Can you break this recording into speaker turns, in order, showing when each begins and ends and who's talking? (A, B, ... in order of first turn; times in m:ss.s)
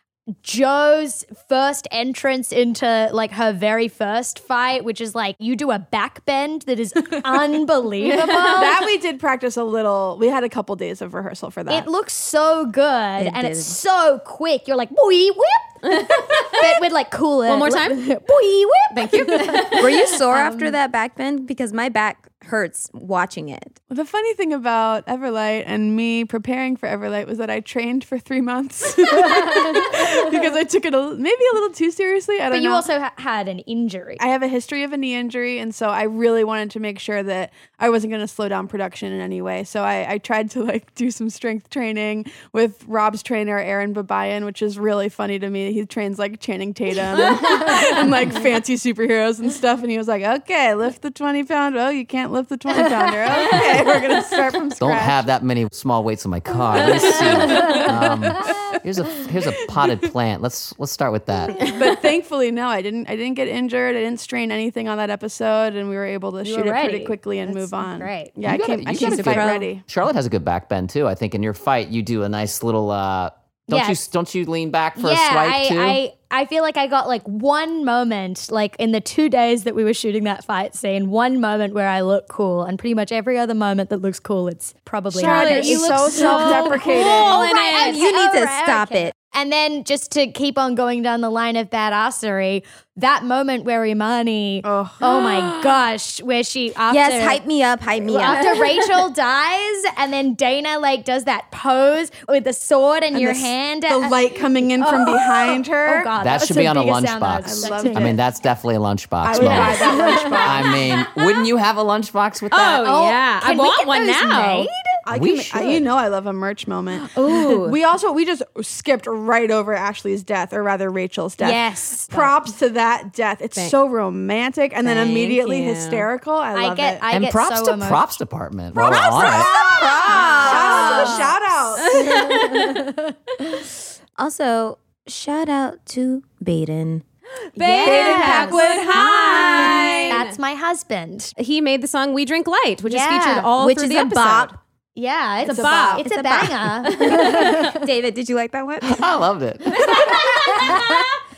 0:00.4-0:08.9 A
0:08.1-0:11.9 B
0:11.7-0:20.8 A
0:13.2-0:13.8 C
0:15.8-0:16.8 D
0:17.5-0:18.0 D
0:18.9-0:20.1 D
0:19.8-0:23.8 C
0:23.9-0:32.9 B
0:29.3-0:30.1 A
0:32.5-0:34.2 A
0:34.2-0:55.2 B
0:54.8-1:01.6 E
0:56.8-0:57.9 B
1:01.6-1:09.8 B
1:06.4-1:08.4 A
1:08.4-1:16.0 E
1:09.0-1:09.6 C
1:13.7-1:14.0 A
1:15.0-1:37.4 A
1:25.1-1:27.5 B
1:25.2-1:28.1 D
1:25.2-1:26.4 C
1:27.4-1:29.1 C
1:34.6-1:35.7 B
1:36.9-1:38.7 C
1:38.0-1:48.2 A
1:38.3-1:38.6 D
1:43.1-1:46.1 B
1:46.2-1:52.9 E
1:47.4-1:48.2 B
1:49.2-1:50.8 B
1:49.3-1:50.7 A
1:52.5-1:54.7 D
1:52.7-1:54.8 A
1:55.1-2:07.0 B
1:55.1-1:55.8 E
1:57.1-1:57.8 D
2:01.4-2:02.3 A
2:04.8-2:06.1 D
2:06.5-2:08.1 A
2:07.1-2:09.6 E
2:08.8-2:12.6 B
2:08.8-2:11.4 A
2:09.4-2:11.2 C
2:10.3-2:11.0 D
2:11.8-2:12.8 D
2:11.9-2:13.2 A
2:14.2-2:17.0 C
2:17.5-2:20.4 D
2:17.6-2:18.6 A
2:17.8-2:20.1 B
2:17.9-2:20.1 C
2:19.6-2:21.3 A
2:21.4-2:24.6 D
2:22.9-2:23.5 A
2:23.6-2:24.5 C
2:25.0-2:27.8 A
2:25.4-2:26.0 B
2:25.4-2:26.0 D
2:26.0-2:29.1 C
2:26.8-2:27.2 D
2:28.8-2:30.3 E
2:29.9-2:31.1 A
2:30.0-2:30.3 B